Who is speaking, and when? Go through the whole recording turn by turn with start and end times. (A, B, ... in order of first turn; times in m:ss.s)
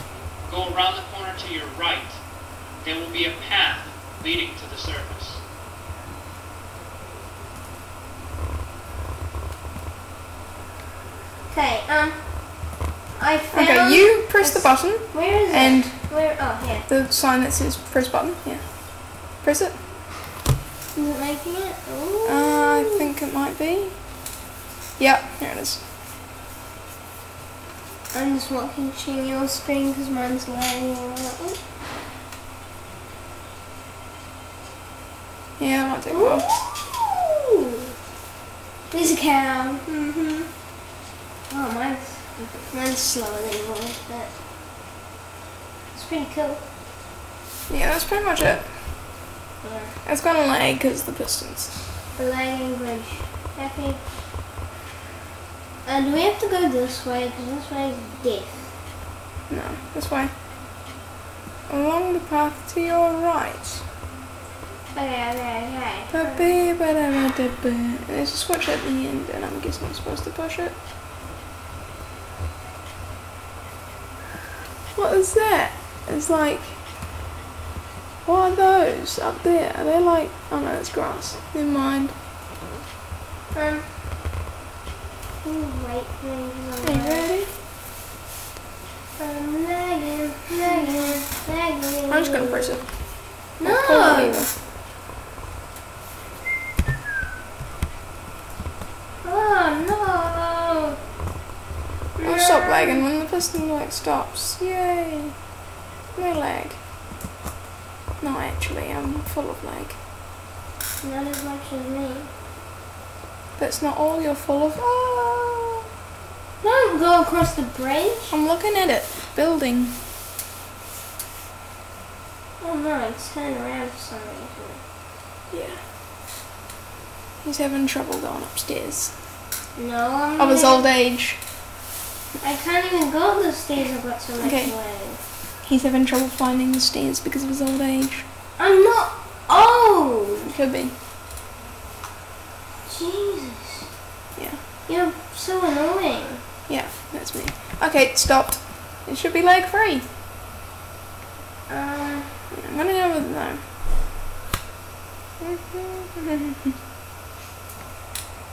0:00.5-0:02.2 A
0:02.8-0:05.4 A
0:11.5-0:16.9 B
0:13.5-0:19.8 C
0:20.9-0:23.1 B
0:22.2-0:24.0 C
0:25.0-0:25.8 C
0:28.1-0:31.6 B
0:35.6-0:36.5 C
0:36.1-0:37.8 B
0:38.9-0:40.6 B
0:41.5-0:44.3 B
0:45.9-0:46.6 B
0:47.7-0:48.7 C
0:49.6-0:50.0 B
0:50.0-0:51.8 C
0:52.1-0:54.1 B
0:55.8-0:58.8 B
0:59.5-1:00.3 C
1:01.7-1:03.8 C
1:04.9-1:06.6 B
1:06.1-1:10.7 C
1:14.9-1:16.8 C
1:18.2-1:22.1 C
1:23.5-1:23.9 B
1:25.4-1:27.3 B
1:26.8-1:27.5 C
1:29.2-1:32.8 B
1:30.7-1:30.9 C
1:32.1-1:32.9 C
1:33.6-1:34.5 B
1:33.6-1:34.5 C
1:39.2-1:41.0 B
1:42.2-1:43.0 B
1:42.2-1:45.4 C
1:46.1-1:46.8 C
1:48.2-1:50.0 C
1:51.0-1:52.3 B
1:53.6-1:55.8 C
1:56.6-1:58.3 B
1:58.3-2:00.0 C
2:02.6-2:04.8 B
2:05.5-2:05.8 C
2:07.4-2:09.2 C
2:09.7-2:10.9 B
2:10.4-2:11.4 C
2:12.4-2:15.2 B
2:14.4-2:14.8 C
2:15.6-2:18.2 C
2:18.6-2:20.5 B
2:20.5-2:21.0 C
2:22.8-2:23.9 B
2:24.3-2:24.6 C
2:24.8-2:26.4 B
2:26.7-2:30.1 C
2:31.7-2:32.4 B
2:32.5-2:33.6 C
2:35.4-2:36.5 C